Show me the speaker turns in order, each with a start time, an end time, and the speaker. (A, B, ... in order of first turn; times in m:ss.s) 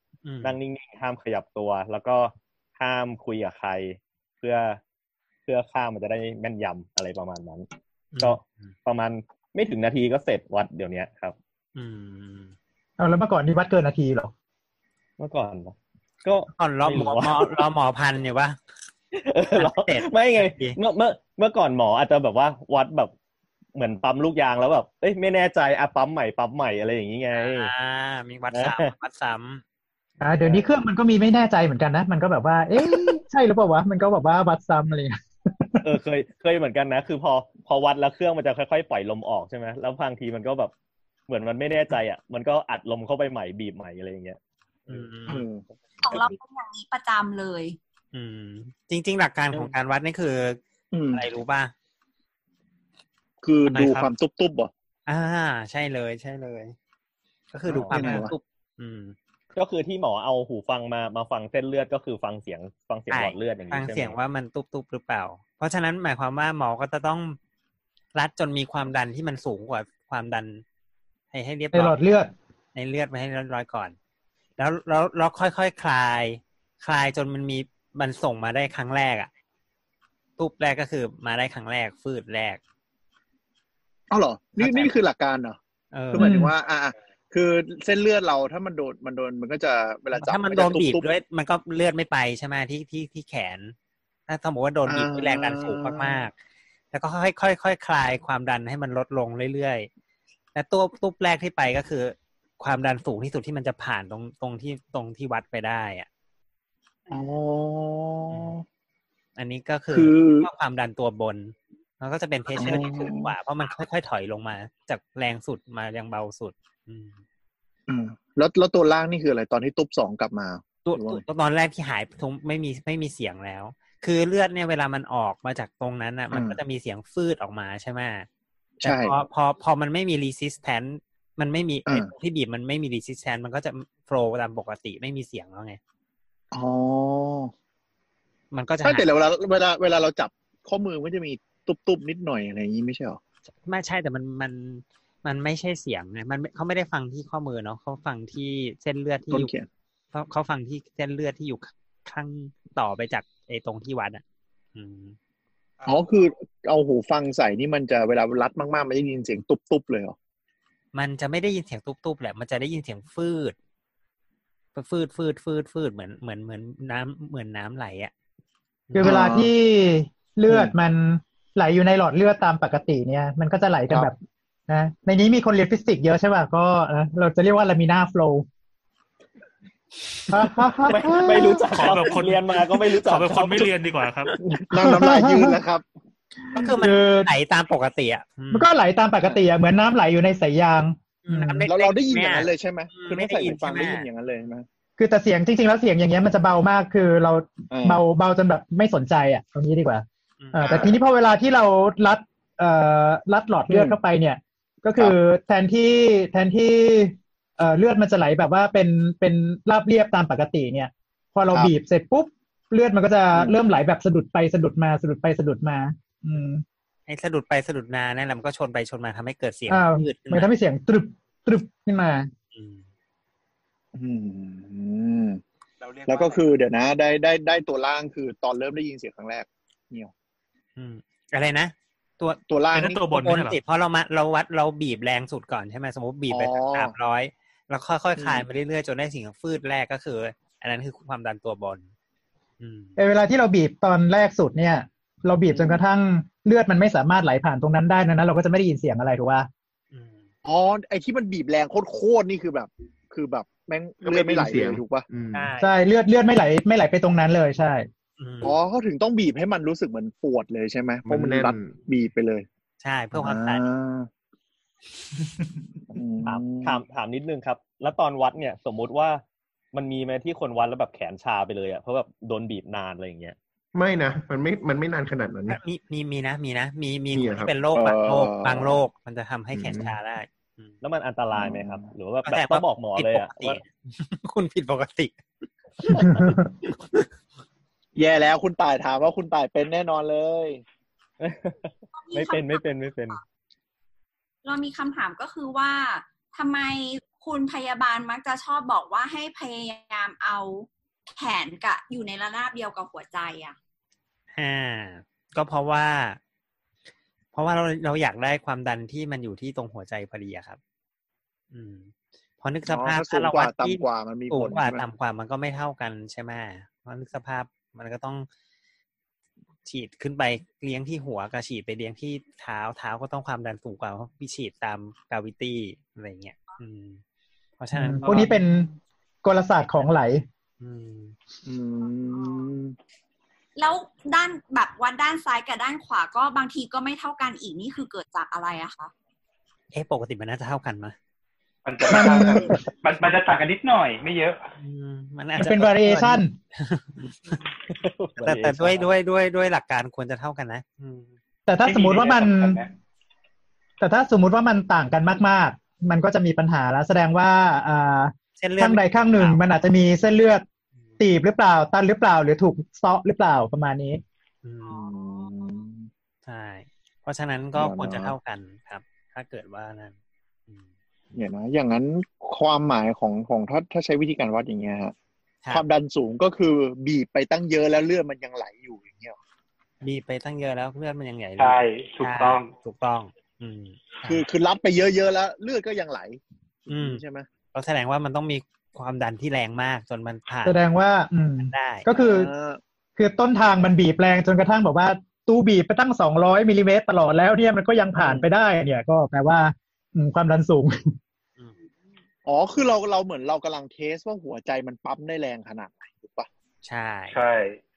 0:00.2-0:00.6 A
0:00.4-0:04.8 B
0:05.5-0:07.7 B
0:08.1-0:08.7 A
0:08.2-0:11.4 B
0:11.8-0:12.6 A
0:13.0-0:14.3 C
0:15.2-0:17.6 B
0:16.6-0:18.6 A
0:19.1-0:23.1 B
0:19.6-0:20.8 A
0:23.8-0:27.7 B
0:27.3-0:29.6 A
0:28.5-0:28.9 B
0:30.2-0:35.8 C
0:30.4-0:30.7 B
0:35.8-0:40.7 B
0:41.3-0:45.1 B
0:44.9-0:45.4 A
0:45.3-0:45.6 D
0:46.0-0:47.8 E
0:48.1-0:50.6 A
0:50.9-0:51.2 D
0:51.1-0:51.7 A
0:53.4-0:54.7 D
0:53.7-0:54.1 A
0:55.1-0:56.8 A
0:57.5-0:59.2 A
0:57.7-0:58.2 B
0:57.9-0:58.3 D
0:59.5-1:04.2 B
1:03.1-1:07.4 A
1:08.1-1:10.6 A
1:11.3-1:12.0 A
1:11.7-1:12.3 C
1:12.8-1:14.0 A
1:14.6-1:19.3 A
1:20.4-1:22.6 A
1:24.1-1:25.6 D
1:24.6-1:25.0 A
1:25.9-1:26.3 A
1:26.1-1:31.0 D
1:26.2-1:26.5 C
1:30.1-1:33.8 A
1:34.3-1:36.3 A
1:34.9-1:36.2 D
1:36.9-1:39.9 A
1:40.6-1:46.1 A
1:47.1-1:48.6 D
1:49.4-1:57.2 A
1:49.9-1:50.5 D
1:52.6-1:53.3 D
1:57.9-2:01.2 D
2:00.8-2:08.3 A
2:06.3-2:06.6 D
2:08.8-2:09.2 D
2:08.8-2:15.8 A
2:11.9-2:12.1 D
2:16.5-2:17.5 D
2:18.5-2:19.1 A
2:18.8-2:23.2 D
2:23.6-2:29.5 A
2:29.3-2:29.7 D
2:30.1-2:34.2 A
2:34.8-2:35.2 A
2:35.9-2:40.2 D
2:40.9-2:43.6 A
2:44.8-2:48.1 A
2:49.0-2:54.2 C
2:49.0-2:49.5 D
2:50.5-2:50.7 D
2:54.7-2:58.5 C
3:00.3-3:01.7 C
3:00.8-3:03.7 B
3:01.7-3:04.3 F
3:04.4-3:05.8 D
3:04.7-3:05.6 C
3:06.5-3:07.3 C
3:06.5-3:08.7 A
3:08.5-3:11.7 C
3:11.2-3:14.1 A
3:11.7-3:14.7 D
3:15.0-3:36.6 C
3:17.7-3:18.0 D
3:20.4-3:20.7 A
3:20.6-3:21.0 D
3:23.7-3:24.0 D
3:37.1-3:40.5 A
3:39.7-3:42.3 C
3:42.5-3:42.8 A
3:43.9-3:45.4 D
3:45.8-3:46.5 G
3:46.1-3:50.1 D
3:50.8-3:52.4 A
3:52.5-3:53.0 D
3:52.8-3:53.6 F
3:53.0-4:01.9 A
3:56.3-3:56.9 D
3:58.2-3:58.5 D
4:02.6-4:03.0 A
4:03.0-4:09.5 C
4:05.5-4:05.8 D
4:09.9-4:10.3 A
4:10.4-4:15.1 D
4:14.0-4:15.5 H
4:15.3-4:15.7 A
4:15.6-4:17.9 C
4:18.2-4:18.6 A
4:18.4-4:22.5 D
4:21.0-4:21.8 H
4:22.8-4:23.6 A
4:23.1-4:24.1 D
4:25.9-4:26.8 D
4:26.2-4:29.2 B
4:29.7-4:33.4 B
4:33.7-4:35.6 H
4:35.5-4:40.8 A
4:37.1-4:37.6 H
4:37.8-4:38.8 D
4:39.5-4:40.0 H
4:40.8-4:43.6 B
4:41.3-4:41.9 D
4:42.2-4:45.2 A
4:45.9-4:46.5 C
4:48.0-4:50.6 D
4:51.2-4:53.2 B
4:51.9-4:53.2 E
4:54.4-5:03.6 E
5:04.4-5:06.2 A
5:07.3-5:10.6 A
5:11.5-5:18.3 A
5:12.7-5:14.8 D
5:19.6-5:27.0 A
5:27.6-5:28.4 A
5:27.7-5:28.7 C
5:29.2-5:30.2 C
5:30.6-5:31.2 A
5:31.4-5:32.8 D
5:33.6-5:38.9 E
5:39.7-5:41.0 A
5:41.6-5:44.4 G
5:41.9-5:42.6 C
5:44.6-5:47.4 A
5:45.4-5:46.3 C
5:47.7-5:48.9 B
5:48.2-5:51.1 A
5:51.5-5:52.6 C
5:51.6-5:52.7 G
5:53.8-6:00.4 C
5:58.4-5:59.4 A
6:01.0-6:04.0 C
6:04.4-6:04.9 A
6:04.7-6:05.9 D
6:06.3-6:10.0 A
6:07.6-6:08.2 D
6:11.1-6:14.9 D
6:15.5-6:19.2 D
6:19.8-6:24.2 A
6:21.4-6:22.5 G
6:24.0-6:27.3 D
6:26.7-6:27.0 A
6:27.5-6:30.6 A
6:30.5-6:32.3 C
6:31.4-6:31.9 A
6:32.0-6:32.6 D
6:33.0-6:40.9 C
6:38.0-6:38.3 D
6:42.2-6:46.3 D
6:46.6-6:47.2 A
6:47.1-6:47.6 G